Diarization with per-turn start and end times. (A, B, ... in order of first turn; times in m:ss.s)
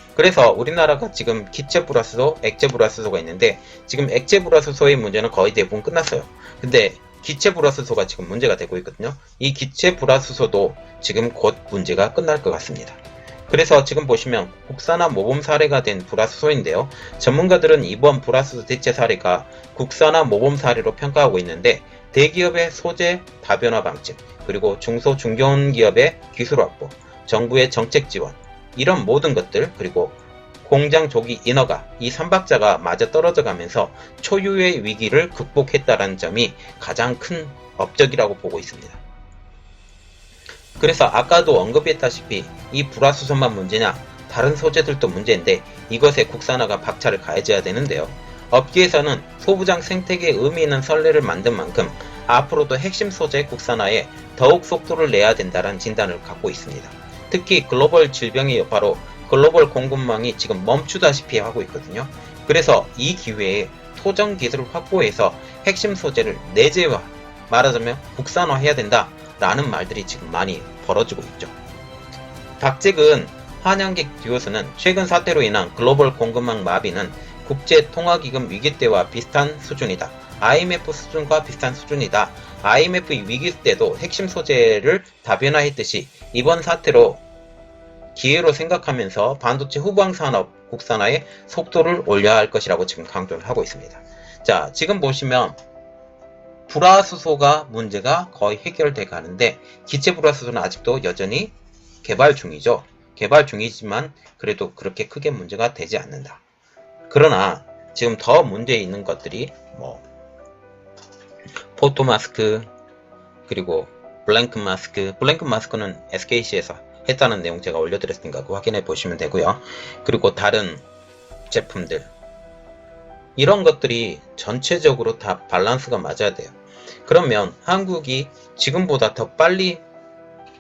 0:00.2-0:39.0 A
0:40.8-1:11.5 A
1:12.6-1:27.2 A
1:28.2-1:35.6 A
1:36.7-1:46.4 A
1:47.1-1:50.0 A
1:51.8-1:52.7 A
1:53.5-2:00.8 A
2:01.5-2:02.1 A
2:03.4-2:06.5 A
2:07.1-2:09.8 A